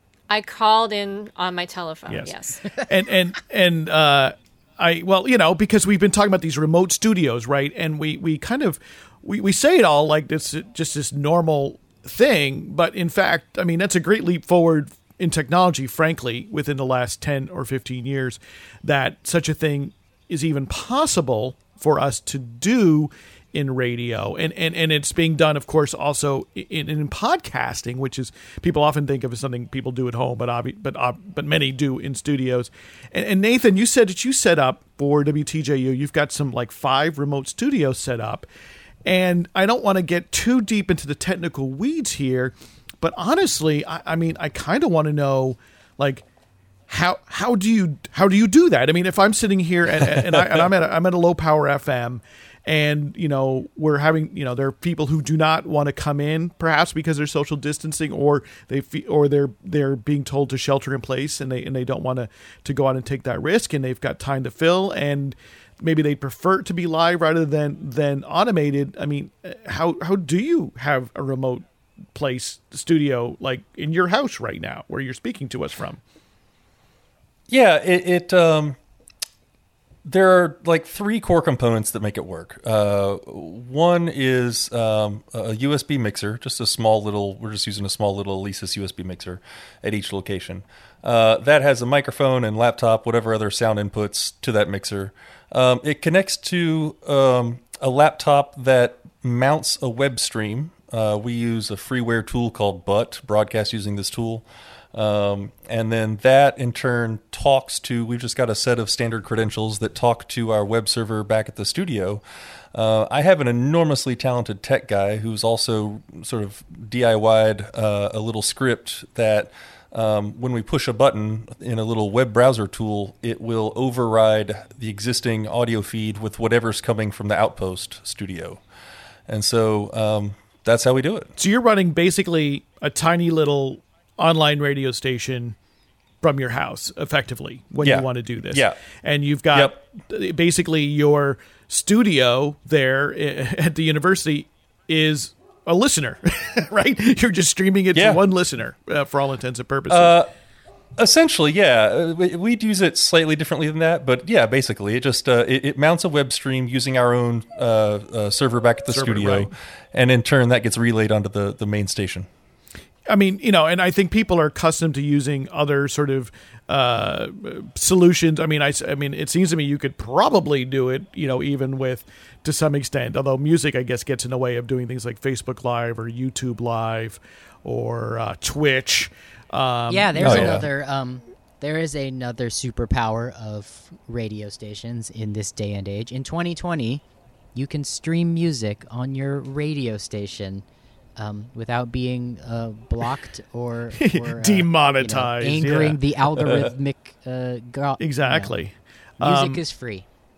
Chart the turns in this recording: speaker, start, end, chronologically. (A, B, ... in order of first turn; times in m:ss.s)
0:00.3-0:02.8 A
0:02.1-0:38.5 B
0:39.0-0:46.2 B
0:46.9-1:16.0 B
0:50.2-0:50.6 C
1:17.5-1:18.8 C
1:20.0-1:52.2 C
1:52.7-2:08.6 C
2:09.3-2:11.3 C
2:11.4-2:15.6 B
2:16.2-2:30.2 B
2:17.8-2:18.8 C
2:27.9-2:28.2 C
2:29.9-2:30.3 C
2:31.0-2:42.3 C
2:38.9-2:39.5 B
2:43.1-3:00.6 B
2:59.9-3:07.0 D
3:00.2-3:00.6 C
3:07.5-3:10.6 D
3:11.2-3:18.5 D
3:14.0-3:16.0 B
3:18.0-3:19.6 B
3:19.2-3:20.0 D